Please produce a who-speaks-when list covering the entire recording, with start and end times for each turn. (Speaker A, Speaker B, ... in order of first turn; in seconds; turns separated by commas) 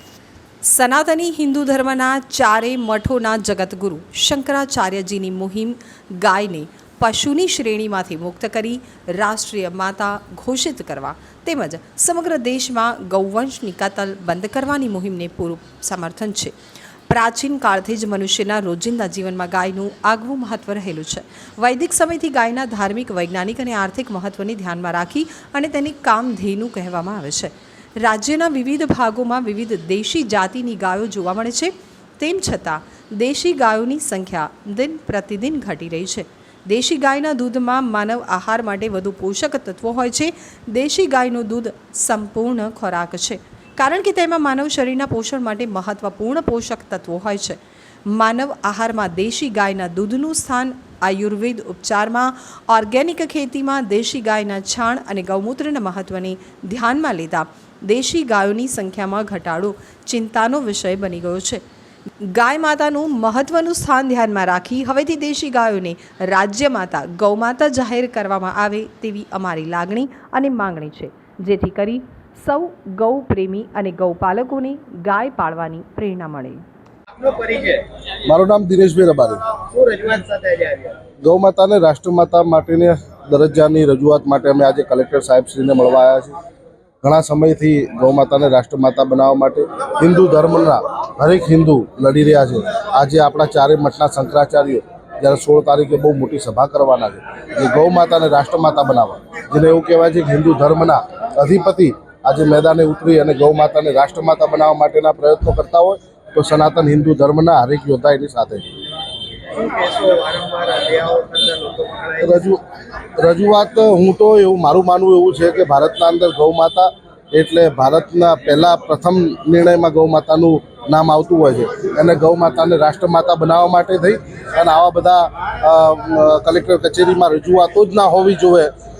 Speaker A: 0.6-16.5, Speaker A: 17.1-61.6, Speaker A: 62.2-76.6, Speaker B: 77.2-77.9, Speaker C: 78.2-79.4, Speaker B: 79.6-81.0, Speaker C: 81.2-86.3, Speaker C: 87.0-108.7, Speaker B: 109.5-112.3, Speaker C: 112.2-112.6, Speaker C: 113.2-128.7